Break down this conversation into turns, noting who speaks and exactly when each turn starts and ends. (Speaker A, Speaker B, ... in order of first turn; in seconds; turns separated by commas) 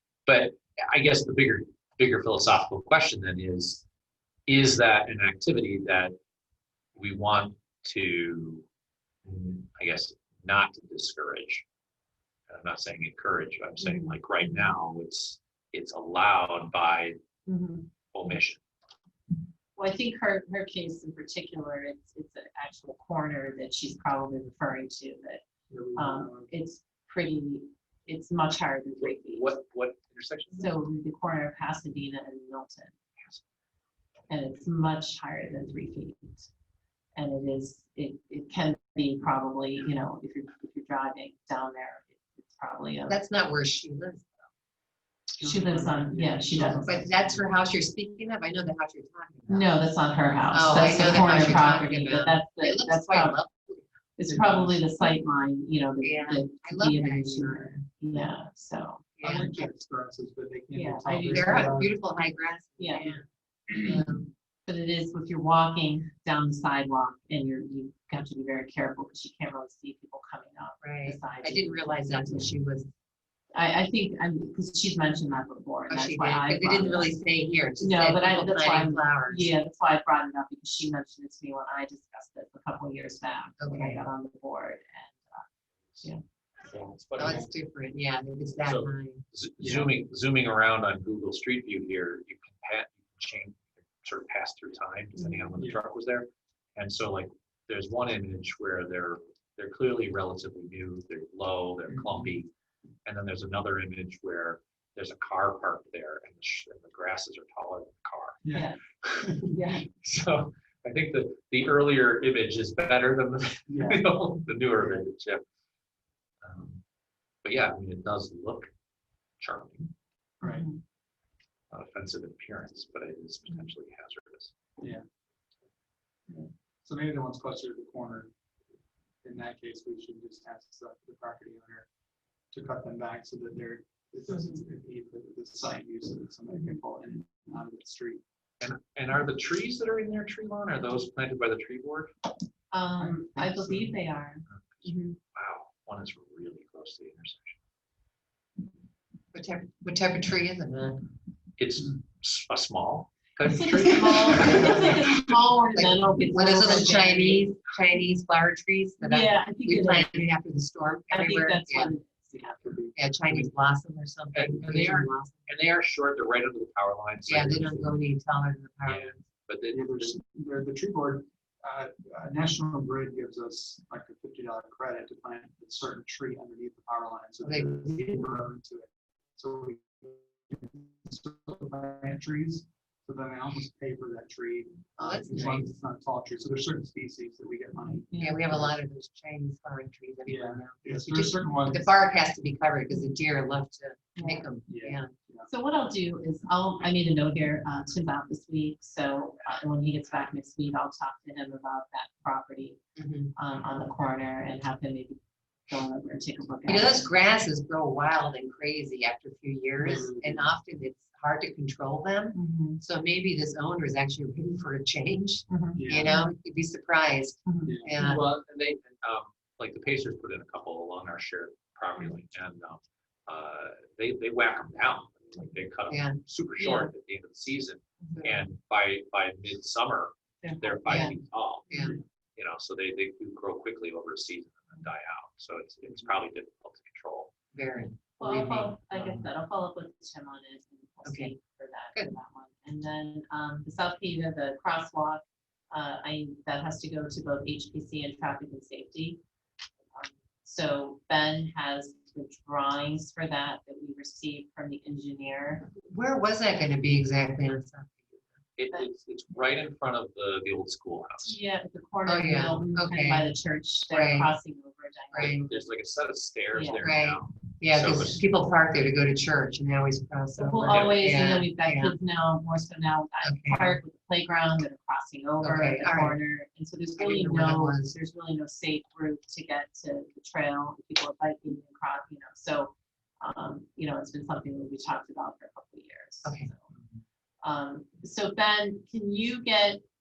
Speaker A: 0.3-3.8, Speaker A: 4.5-6.1, Speaker A: 7.0-8.7, Speaker A: 9.2-11.6, Speaker A: 12.5-17.1, Speaker B: 13.8-14.1, Speaker B: 17.4-17.9, Speaker A: 18.1-18.6, Speaker B: 19.8-25.4, Speaker C: 25.7-26.5, Speaker B: 25.9-29.6, Speaker A: 29.0-30.7, Speaker B: 30.5-32.9, Speaker B: 34.3-36.5, Speaker B: 37.1-43.2, Speaker D: 43.1-44.4, Speaker C: 45.4-47.4, Speaker B: 45.4-47.0, Speaker D: 46.8-49.7, Speaker B: 49.5-53.4, Speaker D: 50.5-53.8, Speaker B: 54.2-59.0, Speaker C: 54.3-54.8, Speaker D: 56.0-57.7, Speaker D: 59.2-59.7, Speaker C: 59.2-61.9, Speaker B: 60.7-61.7, Speaker D: 61.3-64.3, Speaker B: 62.8-63.1, Speaker B: 64.7-72.4, Speaker D: 70.8-72.9, Speaker B: 73.5-77.1, Speaker D: 75.9-79.5, Speaker B: 77.8-85.5, Speaker D: 83.6-84.0, Speaker A: 86.6-87.5, Speaker D: 87.2-89.2, Speaker A: 88.6-102.5, Speaker C: 89.6-89.9, Speaker C: 95.5-95.8, Speaker C: 101.9-102.3, Speaker A: 103.0-108.4, Speaker C: 108.4-109.5, Speaker B: 108.5-108.8, Speaker B: 109.4-109.8, Speaker A: 109.6-115.4, Speaker C: 113.7-114.1, Speaker A: 116.4-116.8, Speaker A: 117.4-118.7, Speaker A: 119.4-119.9, Speaker C: 120.4-120.7, Speaker B: 120.4-120.8, Speaker A: 121.7-124.5, Speaker C: 126.8-128.3, Speaker C: 129.2-131.9, Speaker C: 132.5-138.2, Speaker A: 138.6-142.1, Speaker B: 142.7-145.2, Speaker C: 143.0-143.9, Speaker A: 144.5-147.6, Speaker D: 149.3-151.1, Speaker A: 151.6-154.6, Speaker B: 153.4-157.4, Speaker D: 154.3-155.1, Speaker D: 155.7-161.9, Speaker B: 159.0-160.3, Speaker B: 161.1-162.6, Speaker C: 162.3-163.1, Speaker D: 162.9-165.4, Speaker A: 164.3-168.0, Speaker D: 167.3-169.2, Speaker A: 168.8-170.2, Speaker C: 169.7-188.7, Speaker D: 177.4-177.7, Speaker D: 185.0-185.7, Speaker B: 188.1-188.5, Speaker D: 188.2-195.1, Speaker C: 190.3-191.9, Speaker B: 194.2-194.4, Speaker C: 194.7-195.5, Speaker B: 195.4-202.8, Speaker D: 202.9-203.3, Speaker B: 203.3-207.0, Speaker D: 206.7-218.2, Speaker C: 209.8-210.5, Speaker B: 212.3-212.8, Speaker B: 215.5-216.3, Speaker C: 215.7-216.1, Speaker B: 217.4-218.2, Speaker C: 217.6-217.9, Speaker A: 218.0-231.7, Speaker D: 225.9-226.2, Speaker B: 226.6-226.9, Speaker D: 228.1-228.5, Speaker B: 230.4-231.1, Speaker D: 230.8-231.1, Speaker D: 231.7-231.9, Speaker A: 232.3-237.3, Speaker D: 237.5-238.7, Speaker B: 238.2-249.2, Speaker A: 238.6-239.2, Speaker D: 241.0-241.3, Speaker B: 249.9-255.6, Speaker D: 255.8-258.3, Speaker A: 258.6-261.4, Speaker B: 261.2-265.5, Speaker D: 262.1-263.3, Speaker D: 263.9-264.3, Speaker D: 265.1-265.5, Speaker A: 265.4-268.2, Speaker B: 266.5-266.9, Speaker D: 266.8-271.9, Speaker B: 270.4-286.7, Speaker A: 270.7-271.0, Speaker D: 273.2-273.8, Speaker D: 275.4-276.2, Speaker D: 277.0-277.9, Speaker D: 286.2-286.5, Speaker B: 287.4-289.8